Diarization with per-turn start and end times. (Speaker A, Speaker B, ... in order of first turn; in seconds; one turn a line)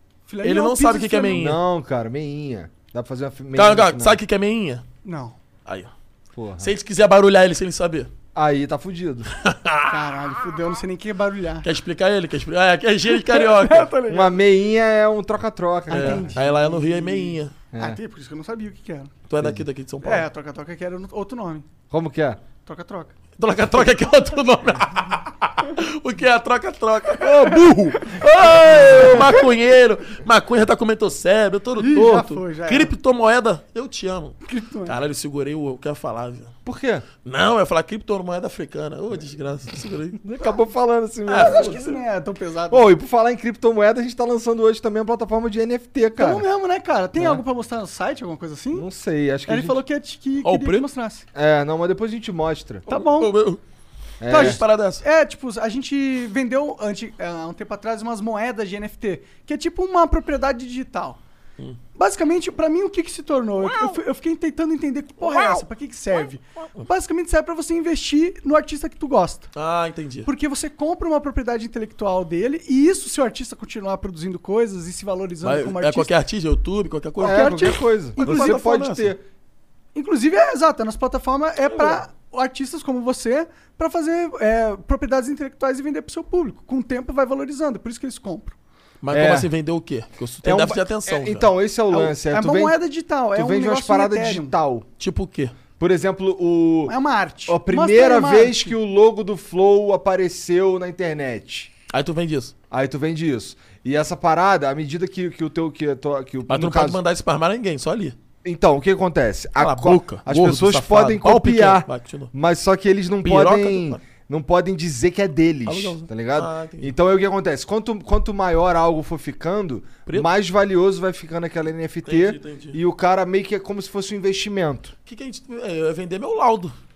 Speaker A: 0.3-1.5
Speaker B: 0.4-1.6
Speaker C: 1.3-4.2
Speaker B: 3.5-4.8
Speaker A: 5.0-5.4
Speaker B: 5.7-5.9
Speaker C: 6.3-6.8
Speaker B: 6.6-8.1
Speaker C: 8.3-9.3
Speaker B: 9.4-10.2
Speaker A: 9.9-11.7
Speaker B: 11.6-13.9
Speaker A: 13.1-14.3
Speaker C: 14.1-16.4
Speaker A: 15.9-19.1
Speaker B: 15.9-17.5
Speaker C: 17.7-18.0
Speaker B: 19.3-20.3
Speaker C: 19.4-19.6
Speaker A: 20.0-21.7
Speaker C: 21.9-22.4
Speaker A: 22.6-23.1
Speaker B: 23.4-36.5
Speaker C: 28.4-29.4
Speaker A: 28.8-29.2
Speaker A: 31.8-32.9
Speaker A: 34.5-35.0
Speaker C: 36.6-37.1
Speaker B: 37.2-40.2
Speaker C: 40.2-42.0
Speaker A: 41.3-42.9
Speaker B: 41.4-41.8
Speaker C: 42.7-46.5
Speaker A: 46.2-48.9
Speaker C: 48.7-49.8
Speaker A: 49.5-51.2
Speaker B: 50.4-50.9
Speaker C: 51.4-52.9
Speaker A: 52.9-53.4
Speaker B: 52.9-53.6
Speaker C: 54.2-54.6
Speaker A: 54.3-61.2
Speaker B: 54.3-55.0
Speaker A: 62.0-69.5
Speaker B: 69.5-70.3
Speaker A: 70.2-76.1
Speaker B: 75.4-79.2
Speaker A: 77.2-78.6
Speaker C: 77.2-79.2
Speaker A: 80.0-88.6
Speaker B: 81.7-82.0
Speaker B: 89.0-91.5
Speaker C: 89.1-89.5
Speaker C: 90.4-92.8
Speaker A: 91.9-94.5
Speaker C: 93.3-94.9
Speaker B: 95.0-95.5
Speaker C: 95.8-101.7
Speaker A: 96.9-98.8
Speaker B: 101.9-102.5
Speaker C: 102.7-107.0
Speaker B: 106.5-108.2
Speaker C: 108.4-124.9
Speaker B: 109.6-112.3
Speaker B: 113.2-114.0
Speaker B: 115.7-116.9
Speaker B: 122.0-122.8
Speaker B: 125.1-126.7